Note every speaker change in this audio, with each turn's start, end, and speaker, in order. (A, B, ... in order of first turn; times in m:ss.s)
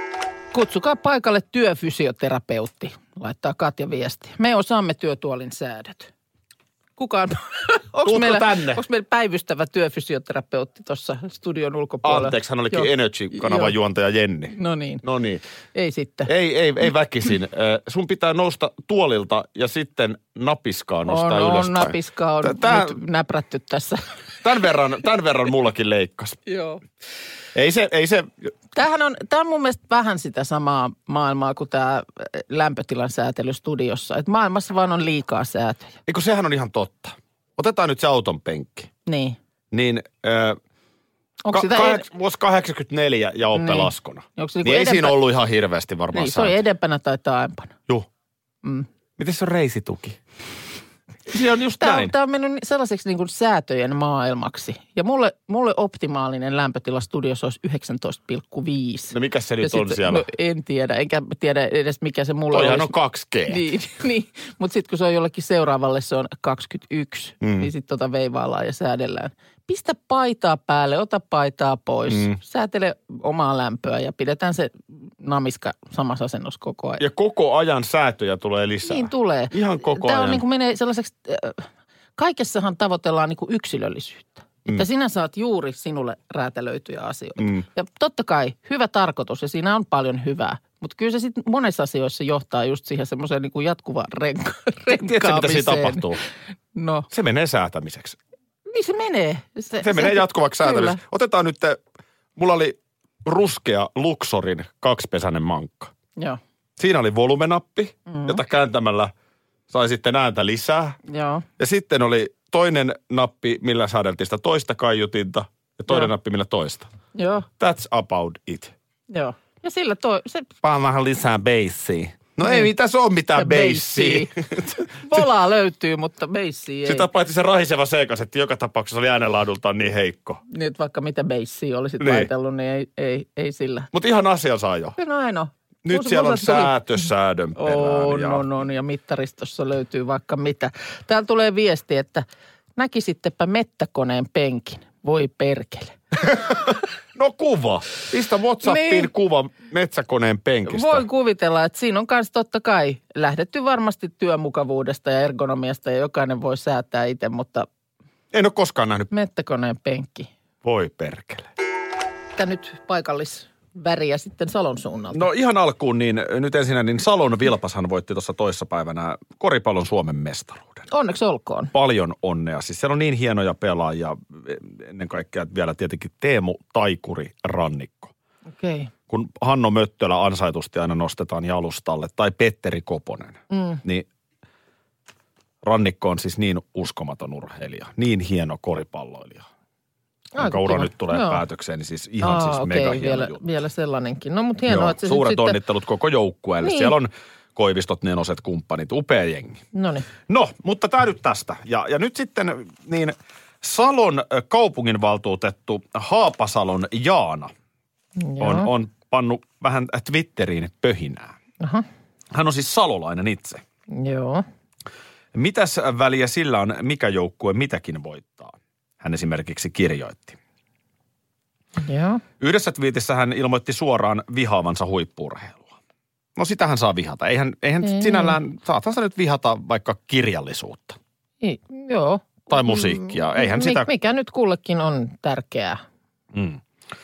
0:00.5-0:06.1 A
0:07.0-0:13.7 A
0:08.0-0:08.8 B
0:12.0-0:15.4 B
0:14.5-0:15.0 A
0:15.8-0:16.3 A
0:16.3-0:23.0 B
0:21.1-0:24.0 A
0:24.4-0:26.4 B
0:26.5-0:26.8 A
0:27.5-0:28.5 B
0:28.8-0:36.0 A
0:36.1-0:38.9 B
0:39.1-0:39.4 A
0:39.7-0:40.6 B
0:41.4-0:42.1 A
0:41.5-0:46.6 B
0:43.6-0:45.2 A
0:46.1-0:47.7 A
0:49.2-0:50.2 B
0:51.3-0:52.1 B
0:51.8-1:02.9 A
0:59.1-1:00.3 B
1:02.5-1:03.6 B
1:03.5-1:17.0 A
1:07.4-1:07.7 B
1:12.1-1:12.4 B
1:17.0-1:20.4 B
1:18.8-1:36.0 A
1:27.4-1:27.6 B
1:34.9-1:36.2 B
1:36.8-1:37.1 A
1:37.1-1:38.2 B
1:38.7-1:41.0 A
1:39.8-1:41.8 B
1:42.4-1:45.9 B
1:46.8-1:49.1 B
1:48.1-1:48.4 A
1:49.7-1:51.0 B
1:51.1-1:51.4 A
1:51.6-1:56.9 B
1:57.2-1:57.5 A
1:57.6-1:58.7 B
1:59.1-2:00.5 A
2:00.6-2:05.3 B
2:02.4-2:02.7 A
2:03.4-2:04.3 A
2:04.9-2:07.1 A
2:06.8-2:10.4 B
2:10.5-2:13.9 A
2:12.0-2:12.3 B
2:13.9-2:15.0 B
2:15.0-2:16.8 A
2:15.8-2:18.4 B
2:17.6-2:22.2 A
2:22.8-2:26.0 A
2:26.2-2:31.1 B
2:28.6-2:29.1 A
2:30.7-2:37.7 A
2:38.3-2:39.1 B
2:39.1-2:40.3 A
2:40.6-2:41.5 B
2:42.4-2:45.3 A
2:45.1-2:50.9 B
2:50.9-2:51.7 A
2:51.7-2:58.1 B
2:58.5-2:58.9 A
2:59.1-3:04.1 B
3:03.5-3:03.8 A
3:05.6-3:09.5 B
3:10.4-3:11.4 A
3:10.4-3:13.4 B
3:12.2-3:15.6 A
3:14.7-3:19.6 B
3:16.6-3:16.9 A
3:19.7-3:20.1 A
3:20.3-3:27.5 B
3:28.2-3:28.7 A
3:28.4-3:31.3 B
3:31.6-3:31.8 A
3:32.3-3:33.6 B
3:33.9-3:34.4 A
3:35.4-3:40.4 B
3:41.8-3:42.2 A
3:42.4-3:45.8 B
3:46.4-3:51.0 B
3:47.8-3:48.4 A
3:51.4-3:55.8 A
3:52.5-3:53.9 B
3:56.3-3:56.6 B